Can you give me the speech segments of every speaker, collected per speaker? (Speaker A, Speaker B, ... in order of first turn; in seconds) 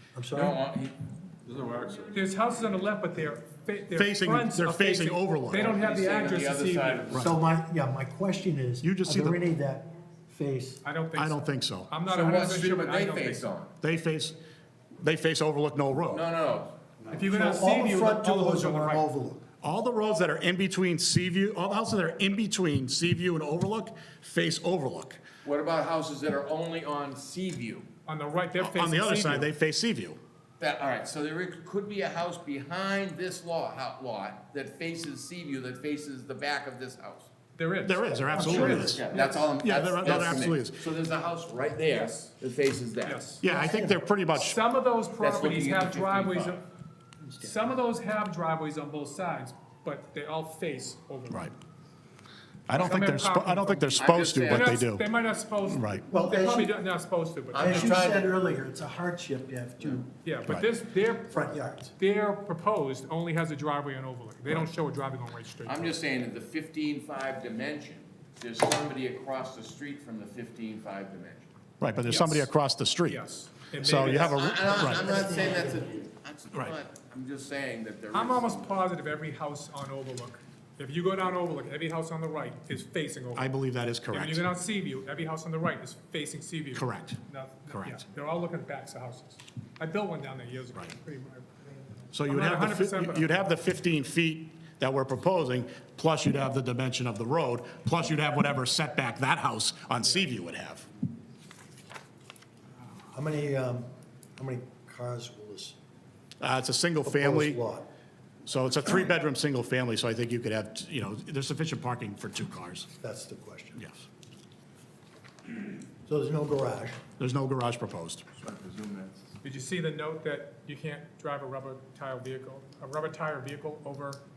Speaker A: 0.1-0.6, 7.2-10.8, 17.2-19.4, 38.3-39.3, 43.5-44.0, 47.2-47.8, 56.1-56.8, 57.5-60.1, 61.3-61.9, 74.7-76.0, 103.1-105.8, 107.0-107.9, 113.0-113.8, 116.1-117.0
Speaker B: 0.3-2.2, 5.5-7.3, 12.1-13.7, 16.1-16.8, 25.4-27.9, 30.6-37.3, 38.4-43.2, 45.2-46.6, 54.0-54.8, 57.5-58.3, 65.7-71.5, 74.0-78.8, 118.4-119.2
Speaker C: 2.1-7.1, 10.8-13.5, 17.1-19.1, 28.1-29.5, 37.6-38.9, 43.0-43.4, 44.3-46.6, 47.4-51.5, 52.8-58.2, 60.2-66.0, 72.1-72.5, 73.1-74.5, 78.1-83.5, 84.1-93.5, 119.4-124.2
Speaker D: 4.0-5.7, 8.8-9.4, 11.2-11.9, 13.8-14.4, 15.0-16.2, 19.6-25.2, 28.6-30.2, 37.9-39.1, 39.6-40.8, 43.4-44.6, 52.7-55.1, 55.7-56.0, 71.8-73.2, 73.8-75.2, 83.3-84.5, 86.7-88.0, 92.1-100.9, 106.4-107.6, 108.5-112.9, 117.2-118.2